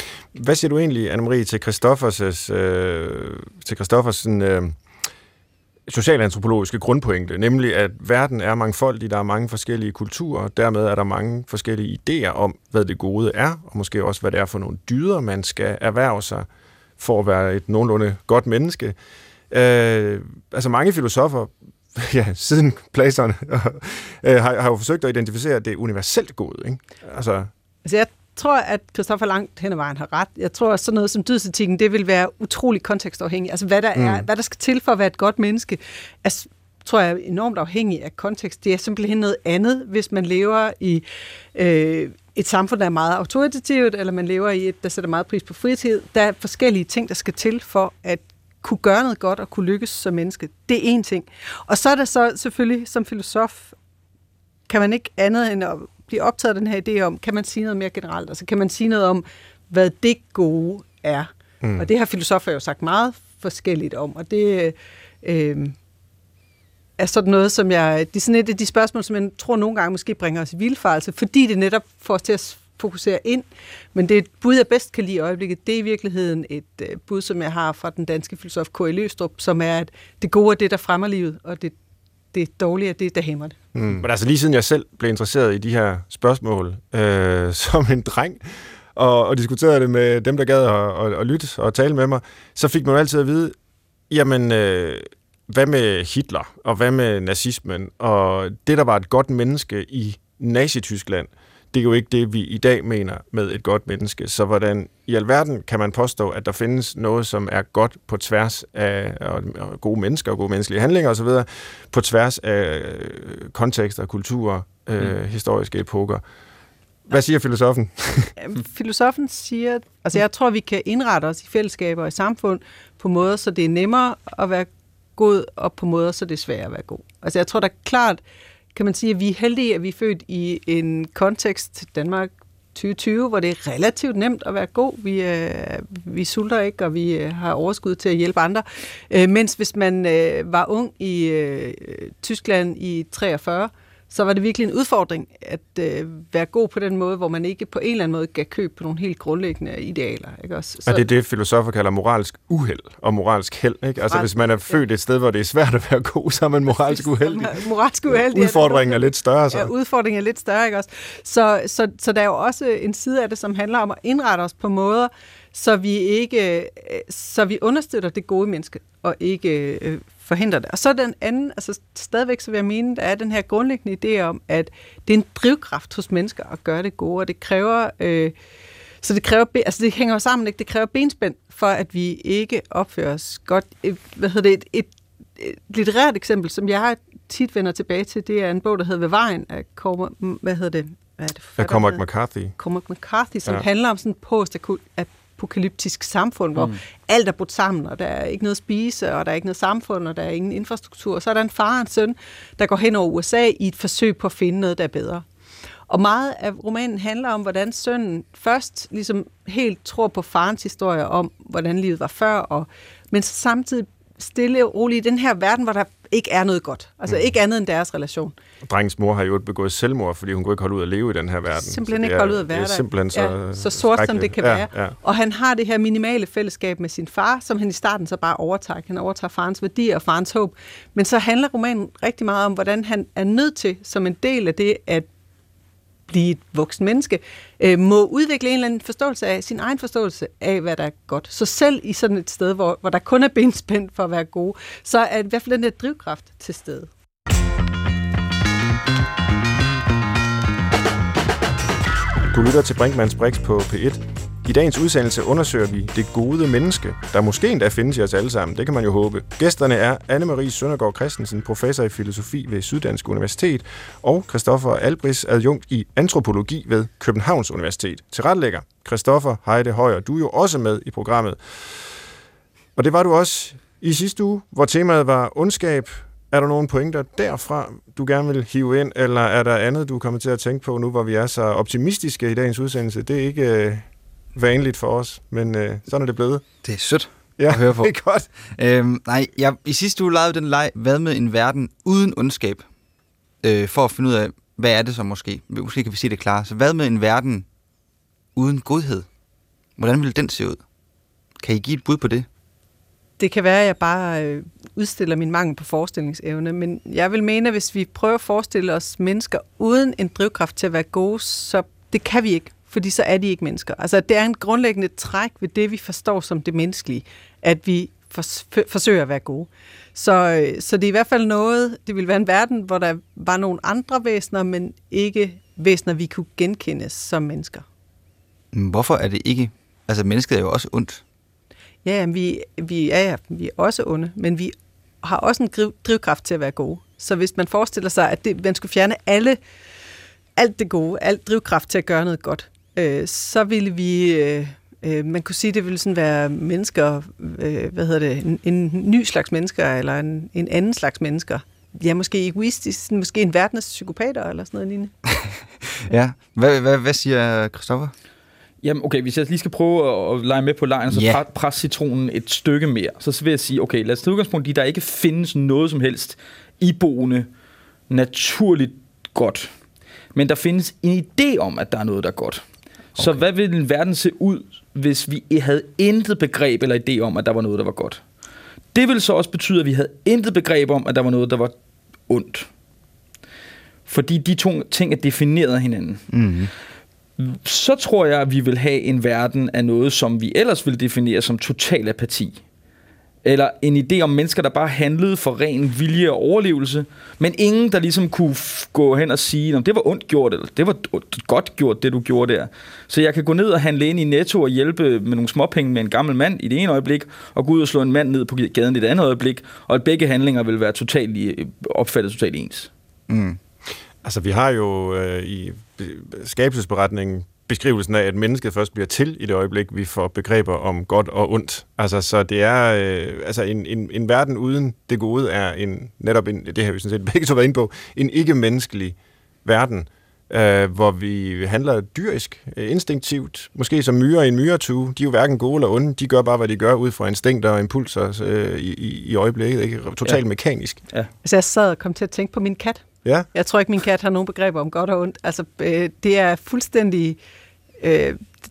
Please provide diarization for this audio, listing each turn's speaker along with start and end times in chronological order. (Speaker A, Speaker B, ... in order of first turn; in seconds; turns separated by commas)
Speaker A: 0.3-4.8, Speaker A: 5.9-16.4, Speaker A: 17.0-18.9, Speaker A: 19.5-27.5, Speaker B: 27.8-53.7, Speaker A: 33.9-34.2, Speaker B: 54.7-65.7, Speaker A: 61.6-61.9, Speaker B: 67.0-81.7, Speaker B: 82.3-83.5, Speaker A: 83.7-93.5, Speaker A: 94.1-116.2, Speaker A: 117.1-118.3, Speaker B: 118.4-128.2, Speaker B: 128.7-151.0, Speaker A: 150.8-159.7, Speaker B: 154.1-154.8, Speaker B: 156.7-178.3, Speaker B: 179.0-192.0, Speaker A: 191.6-192.5, Speaker B: 192.6-205.2, Speaker B: 205.9-218.3, Speaker A: 218.7-224.9, Speaker B: 221.5-235.1, Speaker B: 236.1-246.9, Speaker A: 252.3-271.4, Speaker A: 272.8-286.4, Speaker C: 286.6-287.9, Speaker A: 287.4-288.3, Speaker C: 288.5-292.7, Speaker C: 293.4-297.4, Speaker C: 298.4-299.1, Speaker C: 299.8-300.6, Speaker C: 301.4-302.2, Speaker B: 303.2-327.6, Speaker C: 328.5-331.0, Speaker B: 331.8-339.4, Speaker B: 340.4-354.9, Speaker C: 355.1-357.9, Speaker D: 358.6-367.3, Speaker C: 360.9-361.2, Speaker D: 367.9-369.5, Speaker D: 370.1-372.4, Speaker D: 372.9-378.0, Speaker D: 378.7-381.5, Speaker D: 382.1-382.5, Speaker D: 383.9-386.1, Speaker C: 386.1-386.5, Speaker D: 387.2-392.4, Speaker D: 393.2-412.7, Speaker C: 413.1-413.4, Speaker A: 414.0-440.8, Speaker B: 441.2-442.8, Speaker B: 443.3-447.2, Speaker B: 447.8-448.2